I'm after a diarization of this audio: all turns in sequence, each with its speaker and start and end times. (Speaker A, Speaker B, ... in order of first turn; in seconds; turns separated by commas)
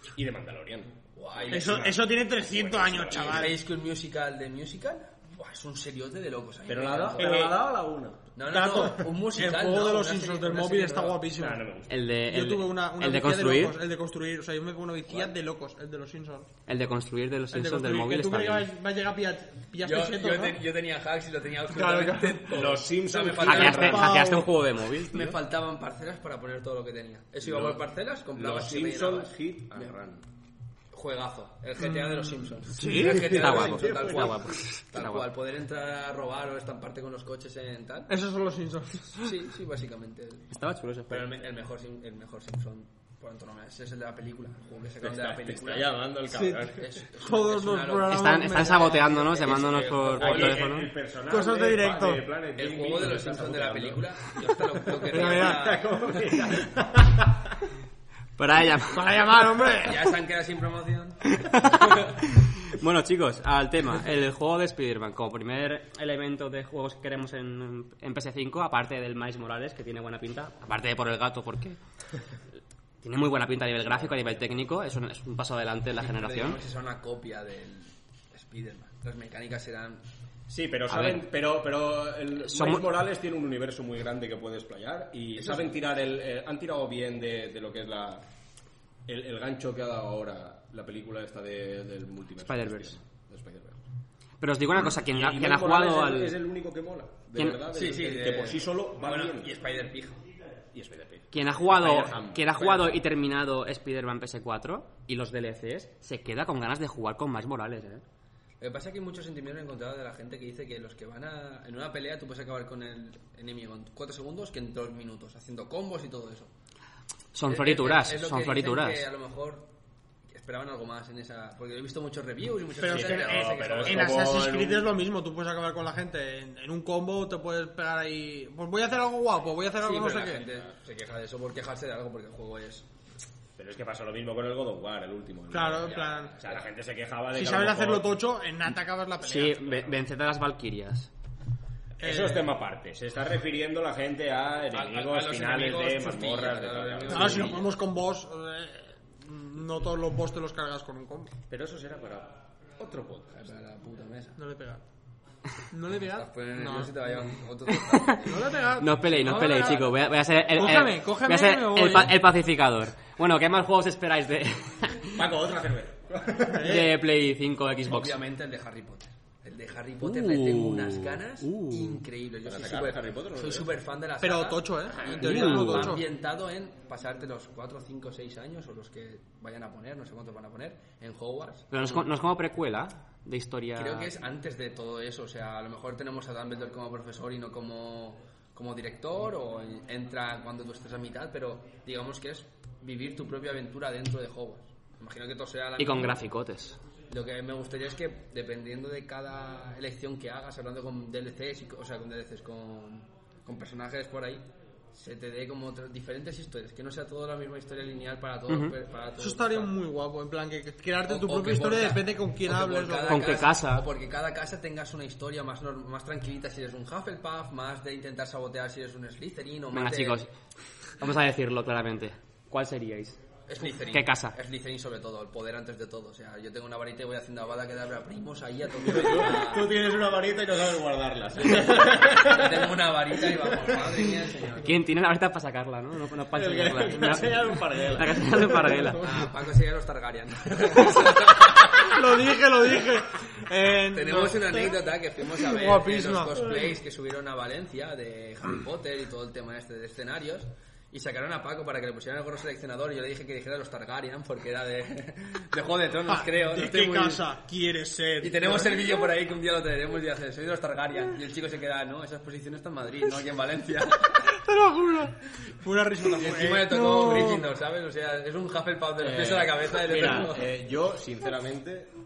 Speaker A: 0.1-3.5, Speaker B: 1.1-2.0, Speaker C: 1.5-3.6, Speaker B: 3.1-7.6, Speaker A: 6.7-8.2, Speaker C: 7.2-7.5, Speaker B: 8.3-11.2, Speaker C: 8.5-11.6, Speaker A: 11.3-12.0, Speaker D: 11.9-13.8, Speaker C: 12.2-16.5, Speaker D: 16.7-18.6, Speaker C: 17.5-20.6, Speaker B: 19.8-24.2, Speaker C: 21.7-22.5, Speaker A: 22.5-24.2, Speaker D: 23.4-25.4, Speaker C: 23.5-24.5, Speaker B: 25.1-29.9, Speaker A: 27.4-27.8, Speaker A: 28.3-30.2, Speaker B: 30.9-38.1, Speaker C: 32.8-33.4, Speaker D: 32.8-35.2, Speaker A: 33.0-34.4, Speaker C: 38.1-39.4, Speaker B: 39.2-40.5, Speaker D: 40.5-41.2, Speaker B: 41.1-46.0, Speaker A: 45.0-46.9, Speaker C: 46.3-46.6, Speaker B: 46.8-50.8, Speaker C: 47.2-49.2, Speaker D: 48.1-50.9, Speaker A: 50.2-54.2, Speaker C: 51.3-52.2, Speaker B: 52.5-56.4, Speaker A: 55.0-57.3, Speaker C: 55.1-55.7, Speaker D: 58.4-59.1, Speaker C: 58.9-60.2, Speaker B: 59.8-62.1, Speaker D: 61.3-71.8, Speaker D: 73.0-76.6, Speaker B: 76.0-80.0, Speaker A: 80.5-88.2, Speaker D: 80.9-81.2, Speaker D: 82.4-82.9, Speaker B: 85.4-85.8, Speaker A: 89.1-93.8, Speaker D: 92.4-93.0, Speaker D: 94.4-96.4, Speaker A: 95.1-99.5, Speaker D: 97.3-97.6, Speaker B: 97.7-100.2, Speaker A: 100.7-102.4, Speaker D: 101.3-108.0, Speaker B: 102.4-103.0, Speaker B: 108.6-116.5, Speaker D: 117.3-119.0, Speaker B: 117.5-119.7, Speaker B: 120.3-124.2, Speaker C: 122.8-130.4, Speaker A: 122.8-124.9, Speaker B: 129.8-132.8, Speaker A: 133.6-138.2, Speaker C: 135.5-136.3, Speaker B: 135.8-136.6, Speaker C: 137.3-139.7, Speaker D: 139.2-141.1, Speaker A: 142.0-147.6, Speaker C: 142.0-142.5, Speaker B: 144.7-147.7, Speaker C: 147.1-151.3, Speaker A: 151.5-153.4, Speaker B: 153.3-154.4, Speaker C: 154.4-154.8, Speaker C: 155.7-156.9, Speaker B: 156.1-158.6, Speaker C: 158.2-162.2, Speaker D: 158.8-165.2, Speaker A: 165.1-166.8, Speaker C: 166.4-166.9, Speaker D: 166.6-168.2, Speaker B: 167.8-182.0, Speaker D: 170.0-172.0, Speaker A: 172.4-173.7, Speaker C: 174.2-176.0, Speaker D: 175.2-175.9, Speaker D: 181.7-184.1, Speaker B: 183.8-196.2, Speaker D: 195.8-196.8, Speaker B: 197.1-209.7, Speaker D: 208.5-208.7, Speaker C: 209.2-213.5, Speaker B: 211.1-220.2, Speaker D: 213.1-213.9, Speaker D: 219.7-220.3, Speaker D: 221.0-223.2, Speaker B: 223.5-229.7, Speaker D: 223.8-224.3, Speaker A: 228.8-232.7, Speaker B: 231.4-234.7, Speaker D: 234.6-239.1, Speaker A: 236.3-238.7, Speaker B: 239.0-242.0, Speaker C: 241.8-244.8, Speaker B: 243.9-257.3, Speaker C: 245.4-246.7, Speaker C: 256.1-258.8, Speaker B: 258.2-264.3, Speaker C: 264.3-267.5, Speaker B: 265.9-270.5, Speaker A: 269.0-271.9